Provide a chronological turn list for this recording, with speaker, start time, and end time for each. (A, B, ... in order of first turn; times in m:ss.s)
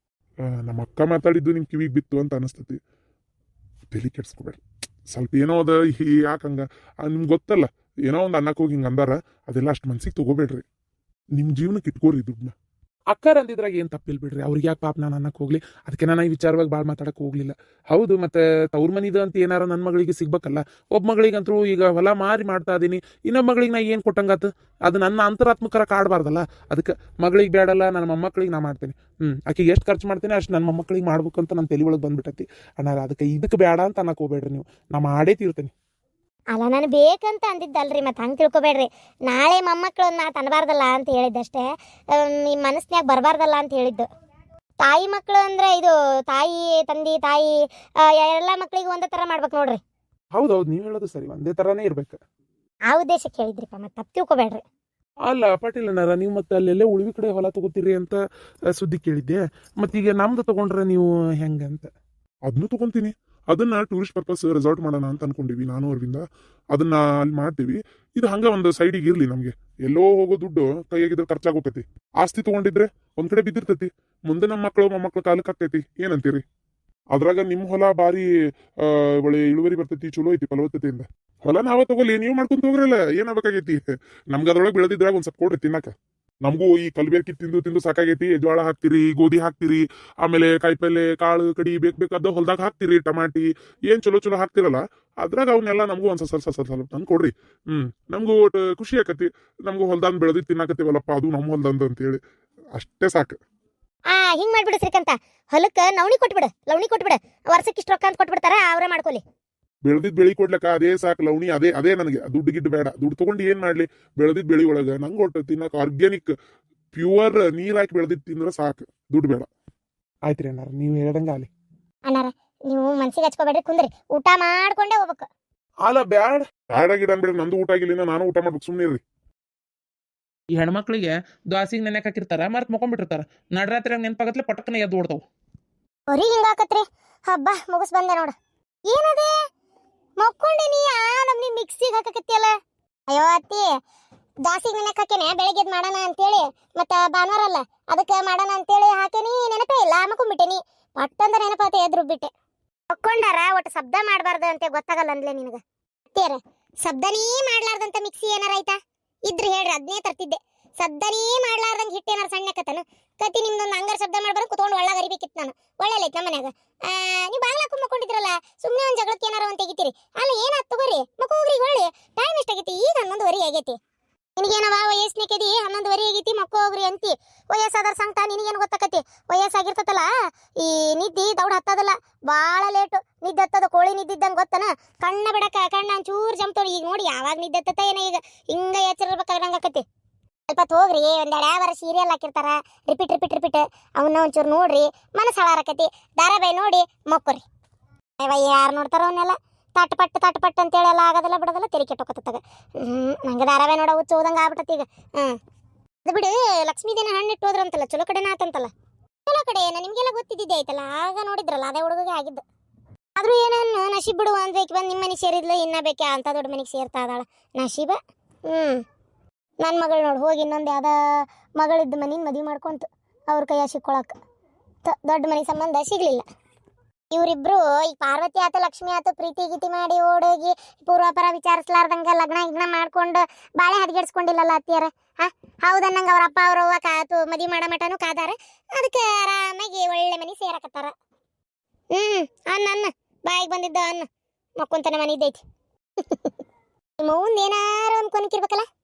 0:00.4-0:02.8 A
0:03.9-0:04.6 A
0:05.1-0:10.6 A
0:11.4-0:12.5 A
0:13.1-0:35.7 B
0:36.5-0:44.1 C
0:44.8-0:49.8 C
0:50.3-0:52.2 B
0:52.9-0:54.6 C
0:55.2-0:58.2 B
0:58.7-1:01.9 B
1:02.5-1:06.2 A
1:06.7-1:16.4 A
1:17.1-1:18.2 A
1:18.8-1:25.9 A
1:26.4-1:42.2 A
1:42.8-1:43.4 A
1:44.1-1:49.2 C
1:49.8-1:56.3 A
1:56.9-1:59.5 A
2:00.2-2:01.5 B
2:02.1-2:05.3 C
2:05.8-2:06.4 B
2:06.7-2:09.0 A
2:10.5-2:15.2 B
2:16.1-2:18.3 C
2:18.9-2:19.3 C
2:20.2-2:22.5 C
2:23.1-2:23.7 C
2:24.4-2:32.3 C
2:32.9-2:53.8 C
2:54.4-3:00.1 C
3:00.6-3:09.8 C
3:10.5-3:17.4 C
3:18.2-3:25.4 C
3:26.0-3:28.7 C
3:29.2-3:32.4 C
3:33.2-3:38.8 C
3:39.6-3:40.9 C
3:41.6-3:44.1 C
3:44.8-3:46.2 C
3:47.1-4:00.9 C
4:01.9-4:04.1 C
4:04.6-4:05.4 C
4:06.0-4:06.3 C
4:07.0-4:08.6 C